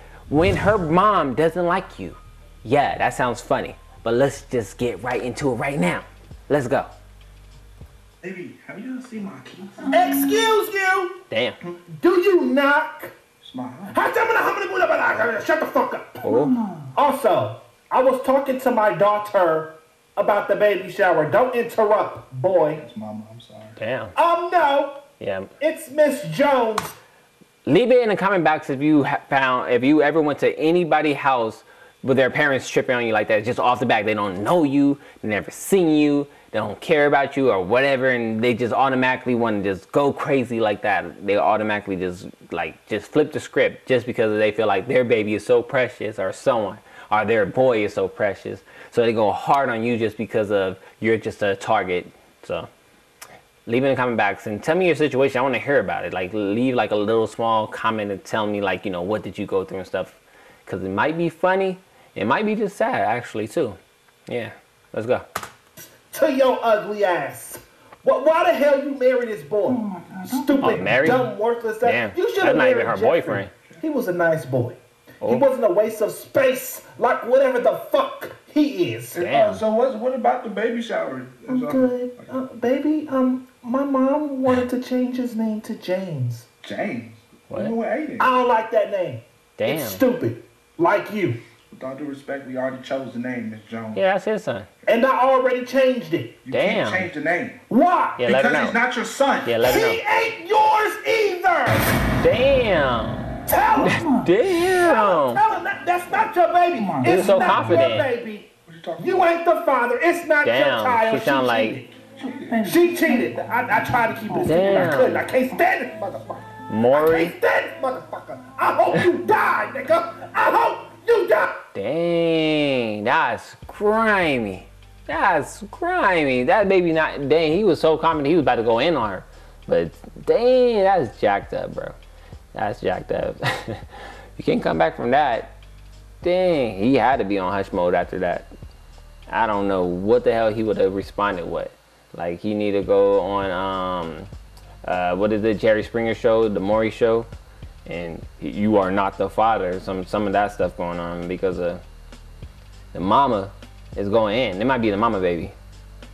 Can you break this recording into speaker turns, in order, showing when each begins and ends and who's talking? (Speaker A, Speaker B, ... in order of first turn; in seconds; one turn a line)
Speaker A: 0.3-6.9
Speaker B: 8.2-10.1
Speaker C: 9.9-11.2
Speaker A: 11.3-11.6
Speaker C: 12.0-13.2
Speaker B: 13.4-14.0
Speaker C: 13.9-22.8
Speaker A: 16.2-16.6
Speaker B: 22.8-23.8
Speaker A: 23.8-24.1
Speaker C: 24.1-25.0
Speaker A: 25.2-25.5
Speaker C: 25.6-27.0
Speaker A: 27.6-52.7
Speaker A: 53.7-65.2
Speaker C: 65.8-79.3
Speaker B: 69.7-71.0
Speaker A: 70.6-71.3
Speaker A: 71.8-73.5
Speaker A: 79.1-79.6
Speaker B: 79.1-82.3
Speaker C: 81.5-86.5
Speaker B: 86.6-88.3
Speaker A: 87.5-87.8
Speaker C: 88.2-91.4
Speaker A: 89.6-90.0
Speaker B: 91.7-94.0
Speaker A: 94.0-94.7
Speaker C: 94.9-96.4
Speaker B: 96.4-97.6
Speaker A: 96.5-97.1
Speaker C: 97.7-98.3
Speaker A: 98.2-98.8
Speaker B: 98.2-99.6
Speaker A: 99.5-100.0
Speaker C: 99.6-101.9
Speaker A: 102.2-103.3
Speaker C: 103.5-104.0
Speaker A: 103.8-105.4
Speaker C: 104.7-112.0
Speaker B: 106.8-107.9
Speaker A: 107.0-108.1
Speaker B: 108.7-109.2
Speaker A: 110.4-111.8
Speaker B: 112.2-113.0
Speaker C: 112.6-121.6
Speaker B: 114.3-115.1
Speaker A: 114.4-115.2
Speaker A: 116.7-117.3
Speaker A: 121.8-132.0
Speaker A: 132.6-135.5
Speaker A: 136.2-138.5
Speaker A: 139.3-144.3
Speaker A: 144.9-147.3
Speaker A: 147.9-151.8
Speaker A: 152.9-155.6